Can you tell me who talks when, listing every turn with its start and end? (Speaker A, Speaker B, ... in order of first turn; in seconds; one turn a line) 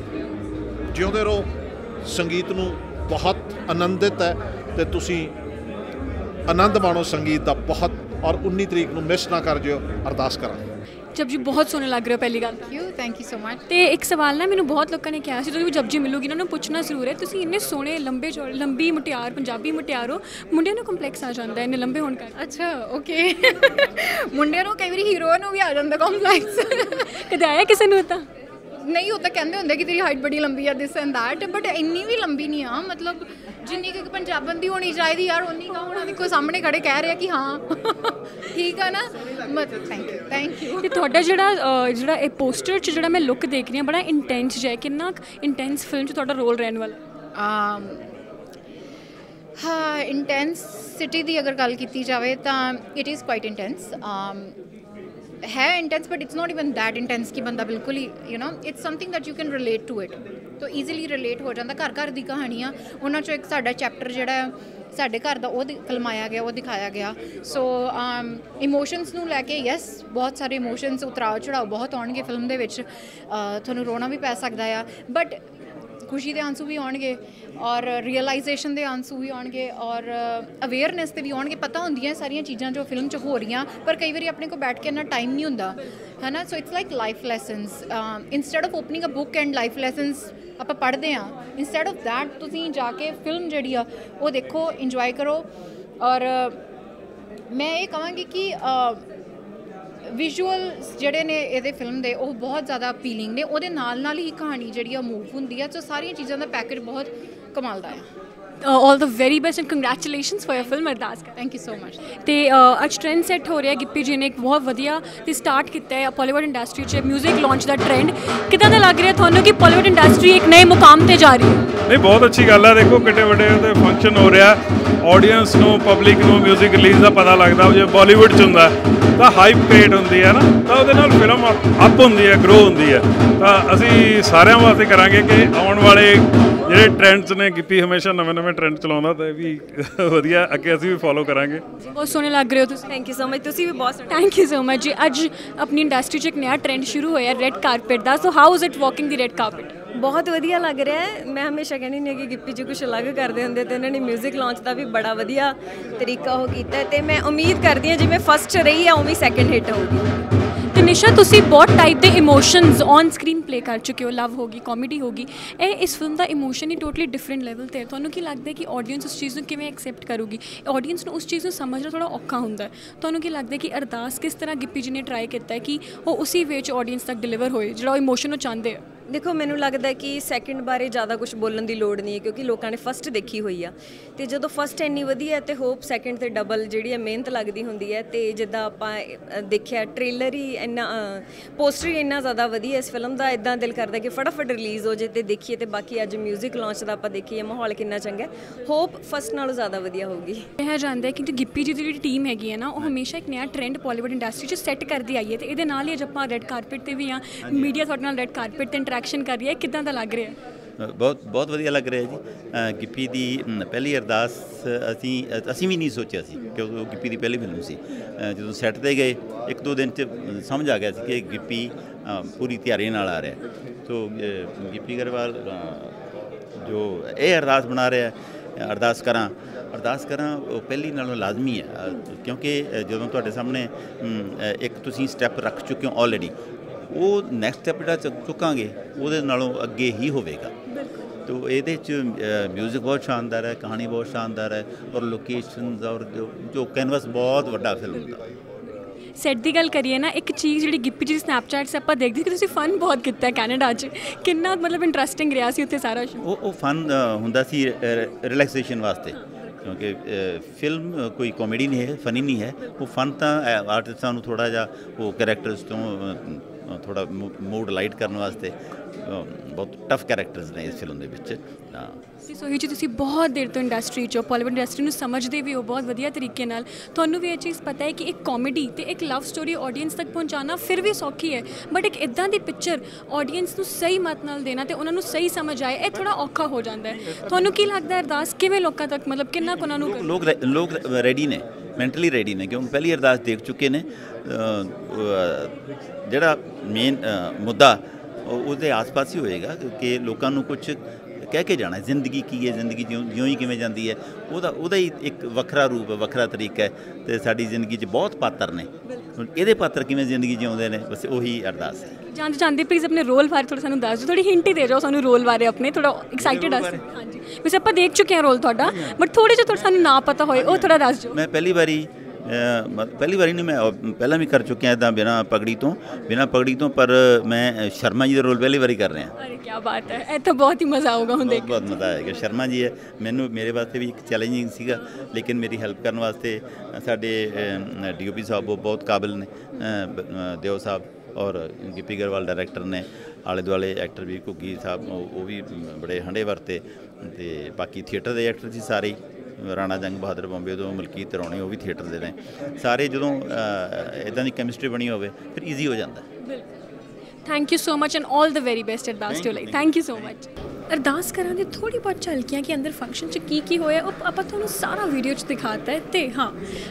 Speaker A: 0.9-1.5
Speaker A: 2.0-5.3
Speaker A: 6.5-10.7
Speaker B: 11.1-12.7
Speaker C: 12.7-13.6
Speaker B: 13.7-22.3
Speaker C: 22.4-27.1
Speaker B: 26.8-28.3
Speaker C: 28.8-40.9
Speaker B: 40.8-47.0
Speaker C: 47.3-48.0
Speaker C: 49.6-54.5
Speaker C: 55.4-75.4
Speaker C: 76.1-95.5
Speaker C: 96.0-96.6
Speaker C: 97.5-99.0
Speaker C: 100.1-108.1
Speaker B: 108.6-111.3
Speaker C: 111.3-112.0
Speaker B: 112.2-121.7
Speaker D: 121.8-141.6
Speaker B: 141.8-142.8
Speaker E: 142.9-144.2
Speaker B: 144.1-149.7
Speaker E: 149.9-160.1
Speaker B: 160.7-178.8
Speaker E: 179.1-200.4
Speaker B: 200.6-210.3
Speaker F: 207.4-207.7
Speaker F: 210.8-225.9
Speaker F: 226.6-236.3
Speaker F: 236.9-240.5
Speaker F: 241.2-248.2
Speaker B: 249.2-256.2
Speaker F: 256.2-272.0
Speaker B: 272.2-290.1
Speaker F: 289.4-295.5
Speaker F: 296.1-311.9
Speaker B: 312.1-321.2
Speaker F: 316.2-316.8
Speaker F: 319.6-329.1
Speaker B: 329.2-331.6
Speaker F: 331.2-356.0
Speaker B: 357.2-366.4
Speaker F: 359.1-360.1